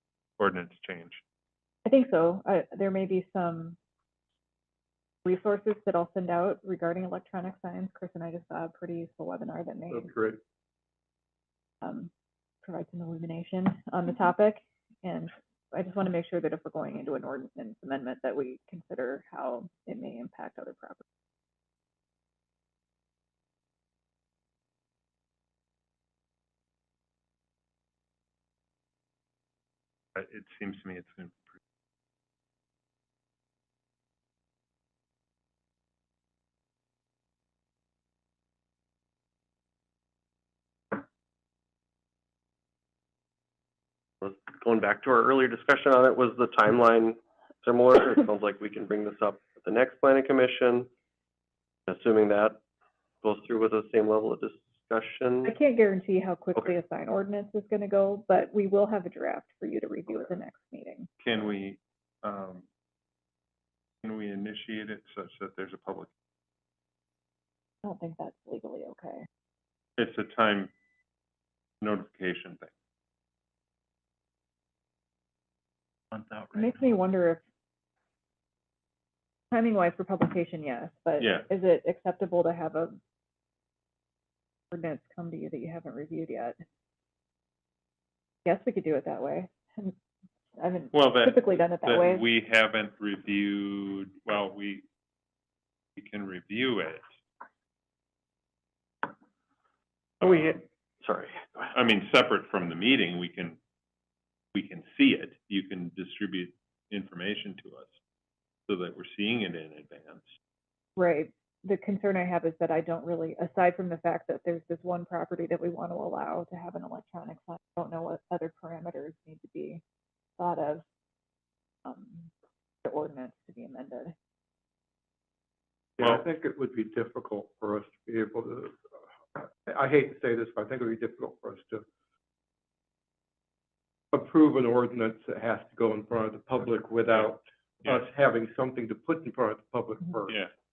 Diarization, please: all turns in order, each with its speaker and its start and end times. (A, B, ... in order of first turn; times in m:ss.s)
0:00.4-0:01.2 A
0:01.8-0:03.8 B
0:05.2-0:10.1 B
0:09.9-0:10.4 C
0:11.8-0:12.1 B
0:12.6-0:21.0 B
0:30.1-0:31.4 A
0:44.2-0:50.9 D
0:51.9-0:52.6 D
0:53.2-0:55.5 D
0:55.4-1:01.1 B
1:01.2-1:02.6 A
1:04.0-1:06.1 A
1:07.8-1:09.2 B
1:10.0-1:10.7 A
1:11.8-1:12.7 A
1:16.5-1:17.4 B
1:19.5-1:23.0 B
1:21.2-1:21.5 A
1:24.7-1:26.6 B
1:28.4-1:29.9 B
1:30.6-1:32.2 B
1:30.9-1:34.8 A
1:36.0-1:37.0 A
1:40.2-1:41.7 D
1:41.7-1:43.6 A
1:44.5-1:47.9 A
1:48.7-1:50.2 A
1:51.0-1:59.8 B
2:00.4-2:00.8 B
2:01.8-2:02.3 B
2:02.8-2:04.1 B
2:06.0-2:08.8 C
2:09.3-2:11.8 C
2:14.1-2:20.4 C